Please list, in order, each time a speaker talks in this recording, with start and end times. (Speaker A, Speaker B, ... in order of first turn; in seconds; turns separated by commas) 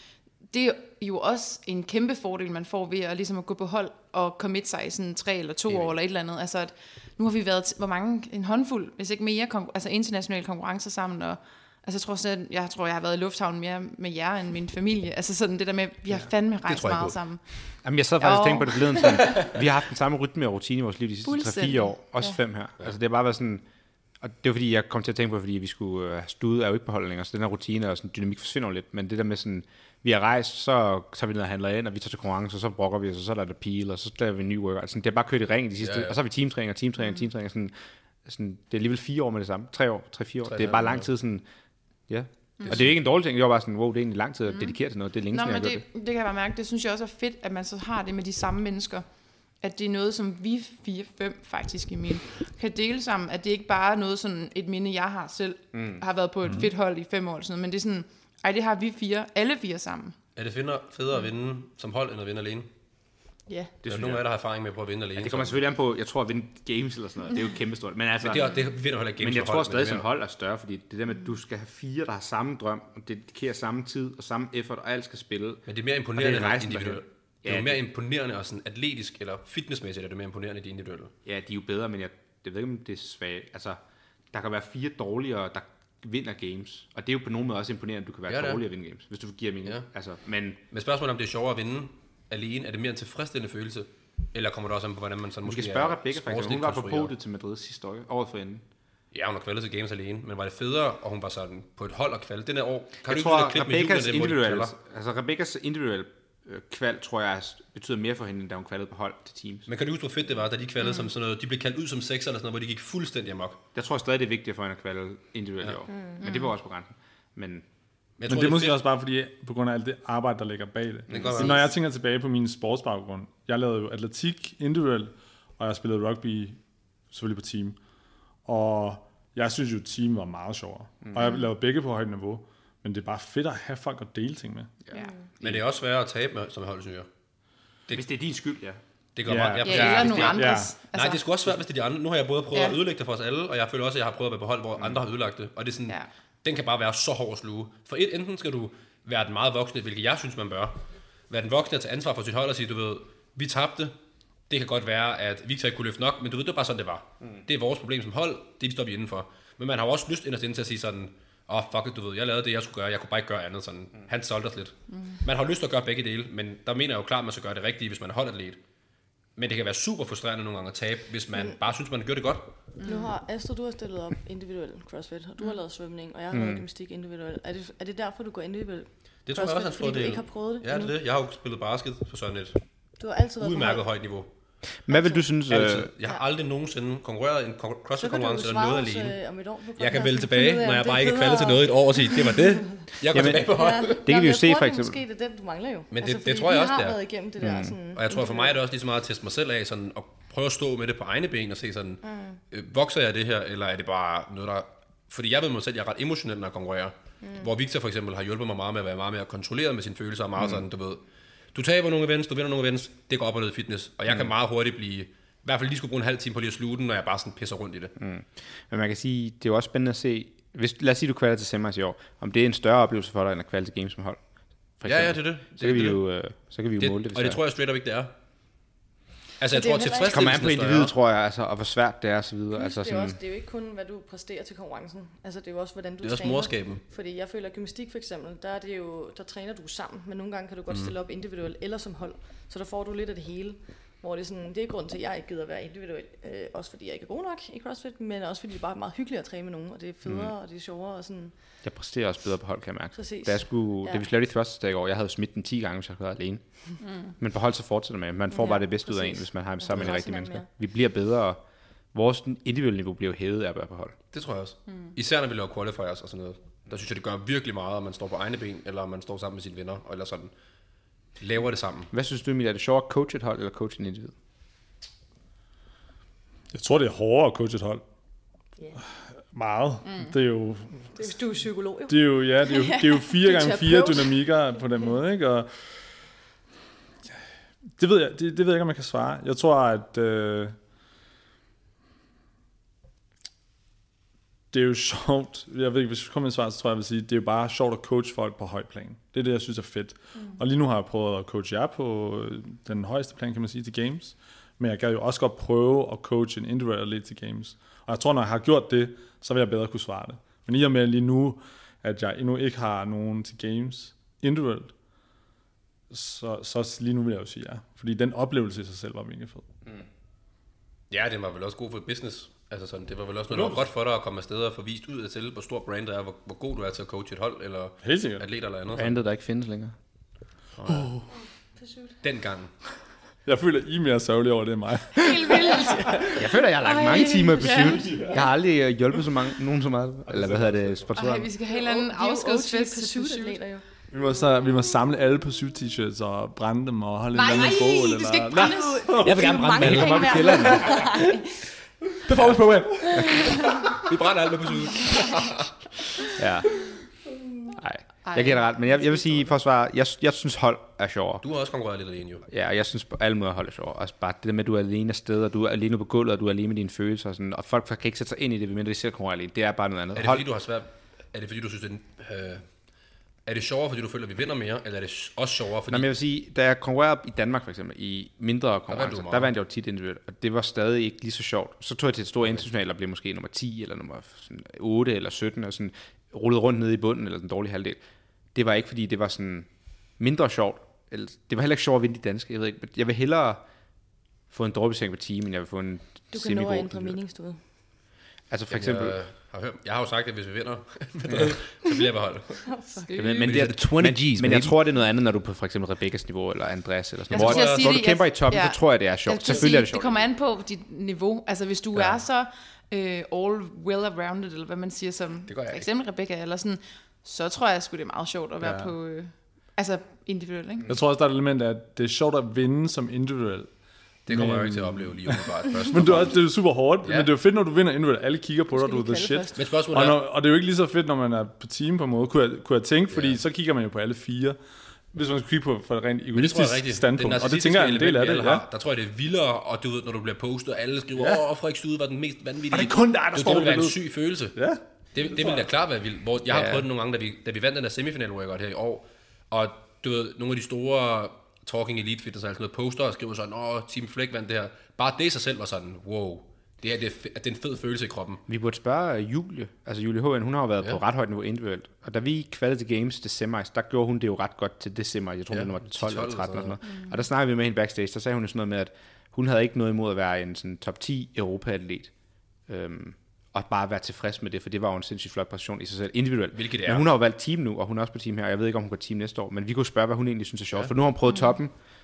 Speaker A: 0.5-17.4, Speaker B: 16.7-17.1, Speaker C: 17.8-23.6, Speaker A: 18.2-19.4, Speaker A: 21.2-22.4, Speaker C: 24.2-37.7, Speaker B: 35.8-36.2, Speaker C: 38.2-41.4, Speaker B: 40.5-41.1, Speaker C: 42.1-45.8, Speaker B: 42.7-42.9, Speaker A: 44.5-44.8, Speaker A: 45.3-49.0, Speaker A: 49.6-60.1, Speaker C: 55.7-56.0, Speaker B: 60.4-62.7, Speaker C: 63.8-64.2, Speaker B: 63.8-65.6, Speaker C: 65.2-68.5, Speaker B: 68.2-70.1, Speaker C: 69.2-75.6, Speaker B: 75.7-81.1, Speaker C: 76.1-77.8, Speaker C: 81.2-83.8, Speaker C: 84.3-90.6, Speaker B: 88.3-88.6, Speaker B: 90.7-97.1, Speaker C: 95.4-98.6, Speaker B: 99.1-104.7, Speaker C: 103.0-109.7, Speaker B: 109.7-113.6, Speaker C: 113.7-117.6, Speaker A: 116.2-116.5, Speaker B: 118.2-118.8, Speaker D: 118.3-126.6, Speaker B: 121.1-121.7, Speaker C: 121.1-121.5, Speaker D: 127.1-127.8, Speaker D: 128.4-134.8, Speaker E: 134.9-135.2, Speaker B: 135.4-137.1, Speaker C: 137.9-138.8, Speaker B: 139.2-153.9, Speaker D: 139.2-140.7, Speaker A: 139.6-141.2, Speaker C: 139.8-140.3, Speaker A: 142.5-142.8, Speaker B: 154.5-168.6, Speaker B: 169.3-172.5, Speaker A: 172.8-173.1, Speaker E: 172.8-180.9, Speaker C: 176.3-176.7, Speaker B: 179.2-182.6, Speaker E: 183.0-183.8, Speaker B: 183.4-184.3, Speaker C: 184.8-185.9, Speaker E: 184.9-185.2, Speaker B: 185.5-189.2, Speaker E: 188.0-192.6, Speaker B: 189.8-194.0, Speaker C: 193.1-195.0, Speaker E: 193.5-198.6, Speaker B: 195.9-197.0, Speaker C: 197.4-197.8, Speaker B: 197.9-211.0, Speaker E: 202.0-202.4, Speaker E: 207.2-207.5, Speaker B: 211.5-217.9, Speaker C: 218.0-224.2, Speaker C: 224.8-227.4, Speaker B: 224.8-226.0, Speaker B: 226.8-228.1, Speaker B: 229.4-230.9, Speaker E: 229.5-230.4, Speaker C: 230.1-233.2, Speaker E: 232.5-251.3, Speaker B: 236.0-236.8, Speaker B: 240.7-240.9, Speaker B: 250.1-250.3, Speaker C: 251.6-256.4, Speaker E: 252.9-254.0, Speaker C: 257.2-261.4, Speaker E: 258.3-260.5, Speaker C: 261.9-263.9, Speaker B: 264.1-270.3, Speaker B: 271.2-271.9, Speaker C: 271.9-274.1, Speaker D: 276.5-277.8, Speaker D: 279.3-280.9, Speaker E: 280.9-282.3, Speaker D: 281.9-285.5, Speaker E: 283.0-284.6, Speaker D: 287.8-290.6, Speaker D: 294.5-314.7, Speaker D: 315.9-319.4, Speaker B: 320.9-329.0, Speaker D: 323.3-323.6, Speaker D: 327.8-328.2, Speaker C: 328.7-329.8, Speaker B: 330.6-330.9, Speaker D: 330.6-331.1, Speaker E: 331.6-331.9, Speaker B: 332.0-332.5, Speaker D: 333.2-336.1, Speaker A: 334.9-338.0, Speaker E: 335.5-336.1, Speaker C: 336.1-341.3, Speaker E: 336.8-338.0, Speaker B: 340.1-340.9, Speaker A: 340.9-343.4, Speaker E: 341.5-343.6, Speaker D: 343.9-349.9, Speaker A: 347.1-351.1, Speaker E: 348.4-351.2, Speaker B: 349.0-351.0, Speaker C: 349.6-350.8, Speaker B: 352.1-355.5, Speaker C: 352.9-353.4, Speaker A: 353.2-353.6, Speaker C: 356.1-356.5, Speaker C: 357.6-361.2, Speaker A: 358.0-359.2, Speaker B: 361.2-362.3, Speaker C: 362.3-370.2, Speaker B: 369.9-372.4, Speaker B: 373.2-375.9, Speaker C: 375.7-387.8, Speaker B: 378.7-379.3, Speaker C: 388.3-389.5, Speaker C: 390.0-393.4, Speaker C: 394.3-397.0, Speaker E: 396.1-397.4, Speaker C: 398.3-399.0, Speaker B: 398.5-402.4, Speaker C: 401.1-401.4, Speaker E: 402.4-403.1, Speaker A: 402.9-403.4, Speaker C: 402.9-410.1, Speaker B: 403.2-404.6, Speaker B: 407.1-407.7, Speaker A: 407.1-420.6, Speaker B: 415.3-415.6, Speaker D: 418.4-418.7, Speaker D: 420.7-423.5, Speaker B: 424.1-426.2, Speaker D: 424.1-434.4, Speaker B: 426.8-427.1, Speaker E: 428.5-429.4, Speaker B: 429.4-430.0, Speaker B: 432.9-433.2, Speaker D: 434.9-438.4, Speaker B: 436.1-444.4, Speaker D: 440.9-441.2, Speaker D: 442.5-443.8, Speaker D: 444.3-445.4, Speaker B: 444.9-458.2, Speaker C: 446.3-446.6, Speaker C: 458.3-471.9, Speaker B: 465.3-466.6, Speaker A: 466.7-467.0, Speaker C: 472.5-481.5, Speaker B: 476.3-476.9